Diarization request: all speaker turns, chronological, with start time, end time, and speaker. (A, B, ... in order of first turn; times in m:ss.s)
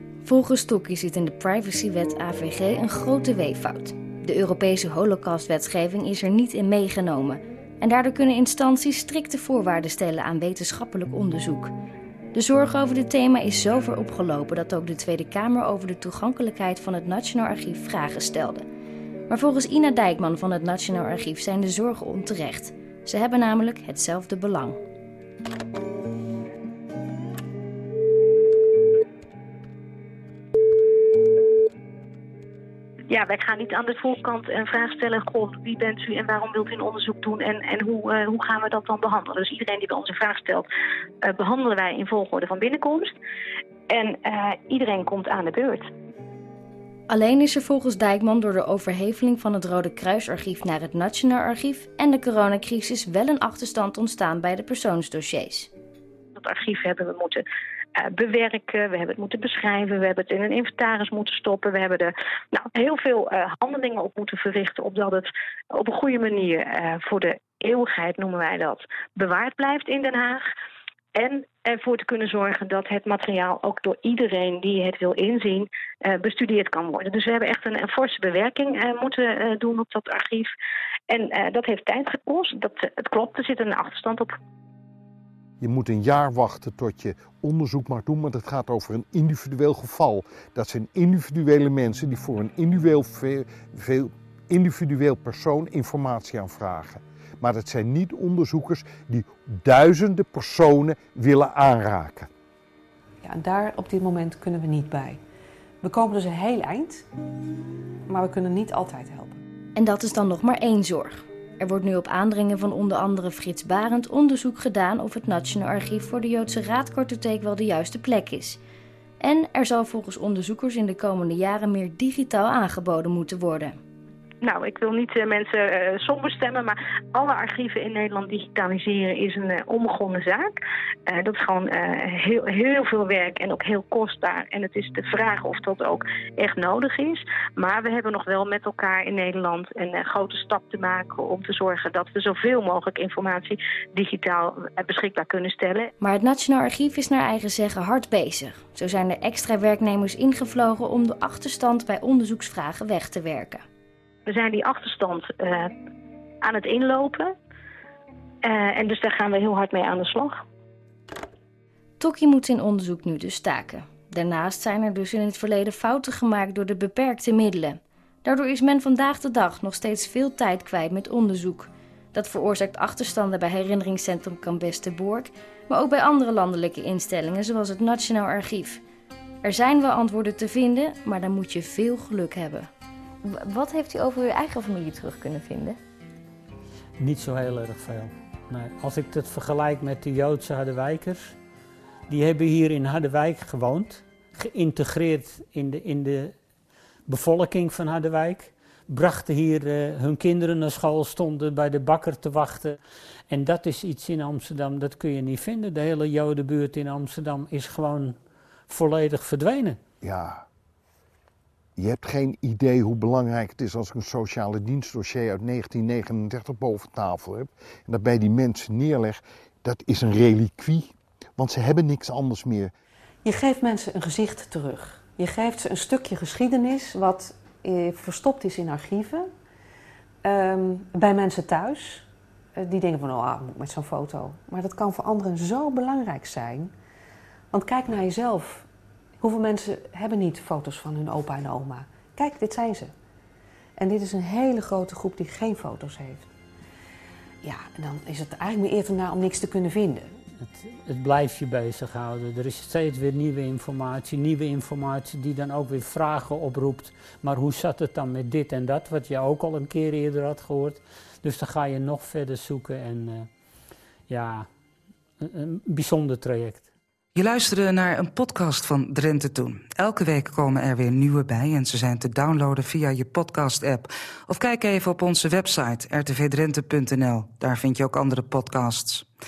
0:00.2-0:11.7 A
0:12.3-0:18.6 A
0:19.3-0:24.8 A
0:33.1-0:40.6 B
0:41.2-0:43.1 B
0:43.9-0:45.8 B
0:47.1-0:55.7 A
0:56.4-0:57.4 B
0:58.1-1:10.4 B
1:11.2-1:20.5 B
1:21.1-1:24.3 B
1:25.6-1:42.3 C
1:43.2-1:45.2 D
1:45.8-1:47.0 D
1:48.1-1:49.4 D
1:49.8-1:58.6 A
1:59.2-2:03.8 A
2:04.4-2:10.5 B
2:11.1-2:25.9 B
2:26.0-2:33.6 A
2:34.3-2:35.7 B
2:36.4-2:37.3 B
2:38.5-2:40.3 B
2:42.0-2:58.8 A
2:59.4-3:02.7 A
3:03.3-3:05.7 A
3:07.0-3:11.4 E
3:12.1-3:16.4 E
3:17.1-3:22.8 E
3:23.3-3:28.2 E
3:28.7-3:29.8 E
3:30.0-3:30.4 C
3:31.8-3:42.7 C
3:43.2-3:49.3 D
3:50.2-3:56.7 D
3:57.5-3:58.7 D
3:59.2-4:02.9 D
4:03.8-4:06.3 D
4:07.4-4:10.1 D
4:10.4-4:23.3 E
4:24.1-4:24.5 E
4:25.2-4:26.7 E
4:27.1-4:39.0 F